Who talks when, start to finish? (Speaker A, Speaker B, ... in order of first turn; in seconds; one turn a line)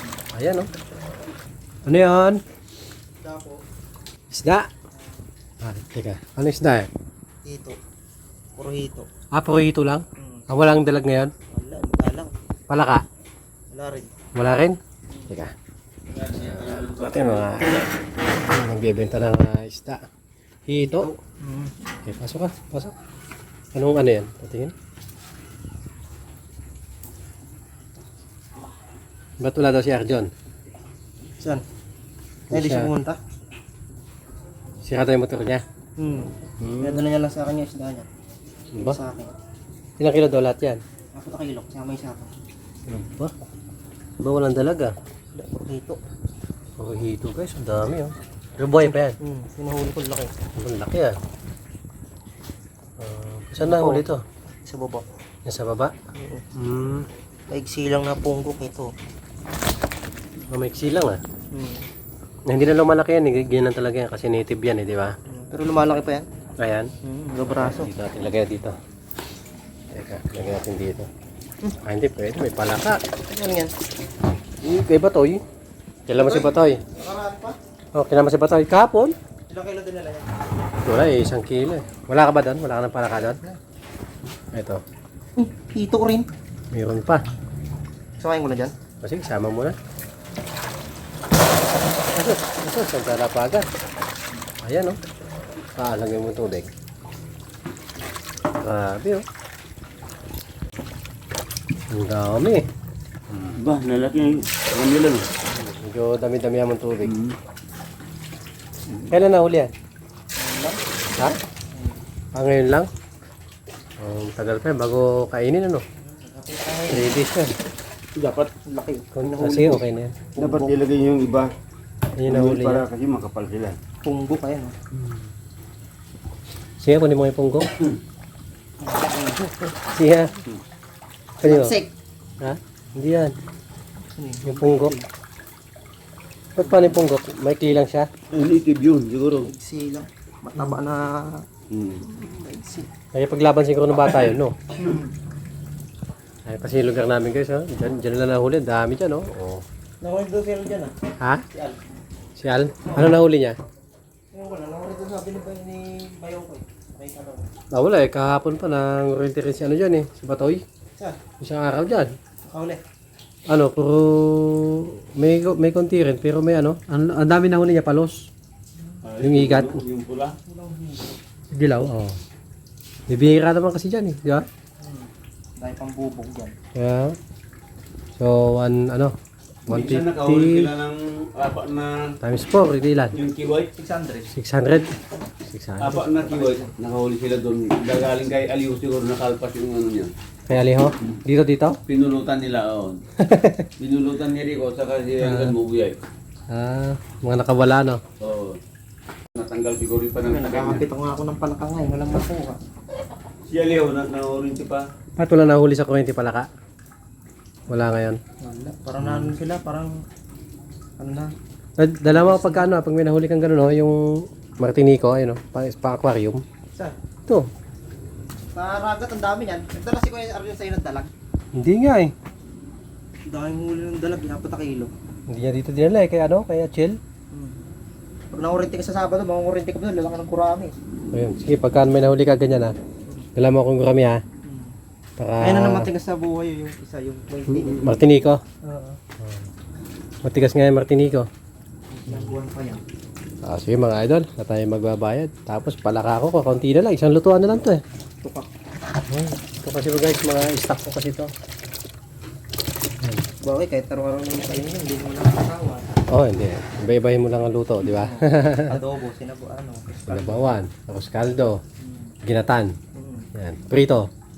Speaker A: 0.3-0.7
Speaker A: 1.9-2.4
Speaker B: 3.2-3.6
Speaker A: 4.3-4.7
Speaker B: 5.0-5.2
Speaker A: 5.6-6.9
Speaker B: 7.4-7.8
Speaker B: 8.6-9.1
Speaker A: 9.3-11.3
Speaker B: 10.2-10.4
Speaker B: 11.5-12.3
Speaker A: 12.7-13.1
Speaker B: 13.7-14.1
Speaker A: 14.3-14.8
Speaker C: 16.1-17.8
Speaker A: 16.5-17.8
Speaker A: 18.4-20.0
Speaker A: 20.7-21.1
Speaker B: 20.8-21.8
Speaker A: 22.1-22.9
Speaker A: 23.7-24.7
Speaker A: 29.4-30.3
Speaker A: 32.5-32.9
Speaker B: 32.5-33.2
Speaker A: 34.8-35.6
Speaker B: 36.0-38.1
Speaker A: 36.6-37.0
Speaker A: 38.7-39.0
Speaker B: 38.8-39.3
Speaker A: 40.0-40.8
Speaker B: 41.1-42.3
Speaker A: 42.9-43.3
Speaker A: 44.2-44.9
Speaker B: 45.4-46.0
Speaker A: 46.8-49.2
Speaker B: 48.9-50.3
Speaker A: 50.6-51.2
Speaker A: 53.0-54.2
Speaker B: 53.6-54.0
Speaker B: 54.7-55.0
Speaker A: 55.5-55.9
Speaker B: 56.2-56.4
Speaker A: 56.6-57.1
Speaker B: 57.5-58.9
Speaker A: 60.5-61.2
Speaker B: 61.5-61.9
Speaker A: 62.5-65.1
Speaker B: 65.3-66.3
Speaker A: 66.6-66.9
Speaker B: 67.0-67.9
Speaker A: 67.5-68.8
Speaker A: 69.9-71.1
Speaker A: 71.8-73.0
Speaker B: 73.3-73.7
Speaker A: 74.6-75.4
Speaker A: 76.1-76.8
Speaker B: 76.1-77.6
Speaker A: 77.9-79.2
Speaker B: 79.5-80.3
Speaker A: 80.8-83.4
Speaker B: 83.3-83.6
Speaker A: 84.5-84.8
Speaker B: 85.4-86.3
Speaker A: 86.7-87.2
Speaker B: 88.2-88.7
Speaker A: 89.0-89.8
Speaker A: 92.1-93.7
Speaker A: 94.6-95.0
Speaker A: 95.8-96.7
Speaker A: 98.6-99.2
Speaker A: 101.9-102.6
Speaker A: 103.3-103.6
Speaker C: 103.5-105.3
Speaker A: 105.5-107.2
Speaker C: 107.1-107.3
Speaker A: 109.1-109.7
Speaker B: 110.4-110.8
Speaker B: 111.7-112.0
Speaker A: 112.3-112.9
Speaker A: 114.0-115.8
Speaker B: 116.0-117.1
Speaker A: 116.9-117.5
Speaker C: 118.2-118.5
Speaker B: 118.7-119.7
Speaker A: 119.1-120.4
Speaker C: 119.4-119.8
Speaker C: 120.4-121.5
Speaker A: 122.2-122.9
Speaker C: 122.3-123.8
Speaker B: 124.0-124.8
Speaker A: 124.9-125.3
Speaker A: 126.8-127.7
Speaker B: 128.8-129.7
Speaker A: 129.8-130.3
Speaker A: 131.4-131.8
Speaker B: 131.4-131.9
Speaker A: 132.4-133.4
Speaker B: 134.1-135.1
Speaker A: 134.4-135.0
Speaker A: 136.6-138.1
Speaker B: 136.6-137.0
Speaker C: 138.3-139.5
Speaker B: 139.4-141.5
Speaker C: 141.7-142.0
Speaker B: 142.0-142.9
Speaker A: 143.1-144.6
Speaker A: 146.4-149.6
Speaker B: 150.0-150.9
Speaker A: 152.4-153.6
Speaker B: 152.9-153.1
Speaker B: 154.3-157.5
Speaker A: 157.7-160.6
Speaker A: 161.4-162.1
Speaker B: 162.5-162.8
Speaker A: 163.5-168.3
Speaker C: 169.0-170.3
Speaker A: 169.2-169.8
Speaker B: 170.5-171.2
Speaker A: 171.5-172.2
Speaker A: 173.1-174.5
Speaker B: 174.8-176.6
Speaker A: 176.8-177.2
Speaker A: 178.2-179.1
Speaker A: 179.7-180.7
Speaker C: 179.7-182.2
Speaker A: 182.2-183.2
Speaker C: 183.1-183.7
Speaker B: 183.8-184.3
Speaker A: 184.3-184.9
Speaker A: 185.5-186.1
Speaker C: 185.8-190.1
Speaker B: 186.2-186.7
Speaker A: 190.5-191.8
Speaker C: 191.9-193.0
Speaker A: 193.2-193.7
Speaker C: 193.8-196.0
Speaker A: 195.2-195.6
Speaker A: 196.5-198.0
Speaker C: 198.2-198.6
Speaker C: 199.3-200.8
Speaker B: 200.2-202.6
Speaker C: 203.5-204.8
Speaker A: 205.2-206.5
Speaker A: 207.7-208.2
Speaker B: 208.4-209.9
Speaker A: 209.0-209.3
Speaker B: 211.0-211.3
Speaker A: 211.8-216.4
Speaker B: 212.1-212.7
Speaker B: 218.5-221.1
Speaker A: 221.5-222.1
Speaker B: 223.3-224.9
Speaker A: 225.3-227.0
Speaker B: 227.3-227.6
Speaker B: 228.3-230.8
Speaker A: 231.1-232.8
Speaker A: 233.4-234.2
Speaker B: 234.4-234.7
Speaker A: 235.2-235.9
Speaker B: 235.4-237.9
Speaker A: 237.7-238.4
Speaker B: 238.6-239.0
Speaker A: 239.2-239.5
Speaker A: 240.2-241.3
Speaker B: 241.9-242.8
Speaker A: 243.4-247.8
Speaker B: 248.2-248.5
Speaker A: 249.1-251.3
Speaker A: 253.0-253.3
Speaker B: 253.4-255.9
Speaker A: 256.1-258.8
Speaker B: 257.8-260.6
Speaker A: 260.1-261.6
Speaker B: 261.8-262.1
Speaker A: 262.2-262.7
Speaker B: 262.9-263.3
Speaker A: 263.4-264.1